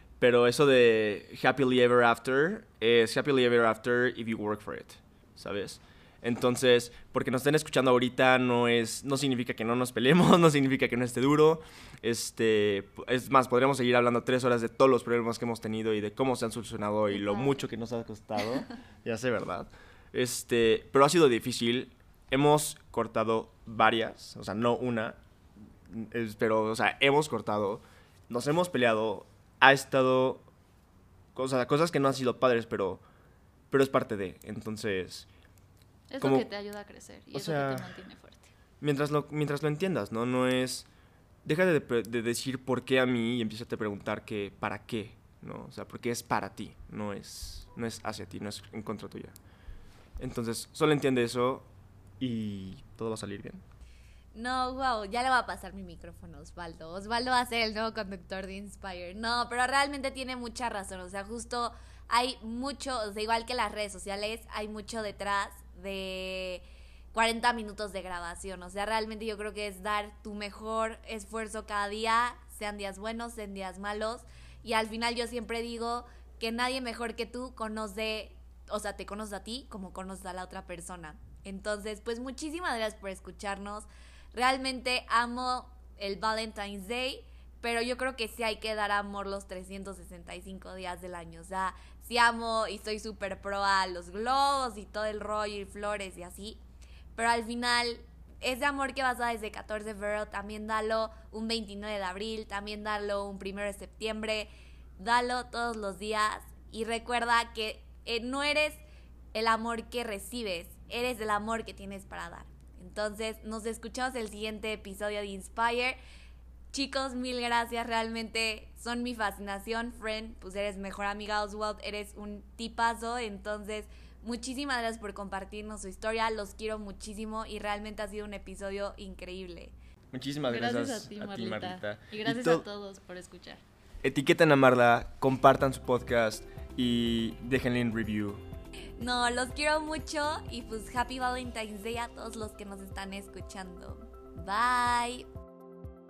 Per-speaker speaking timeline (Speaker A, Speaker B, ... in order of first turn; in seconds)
Speaker A: 0.2-25.2, 25.9-30.5, 31.4-33.0, 33.7-35.3, 36.2-36.5, 37.3-37.9, 38.8-40.9, 41.5-49.4, 50.2-51.7, 52.2-53.6, 130.1-132.7, 134.0-138.4
Speaker B: 36.1-38.5, 130.5-133.6
Speaker C: 54.3-96.6, 97.2-108.8, 109.3-116.0, 116.7-129.7, 139.0-145.3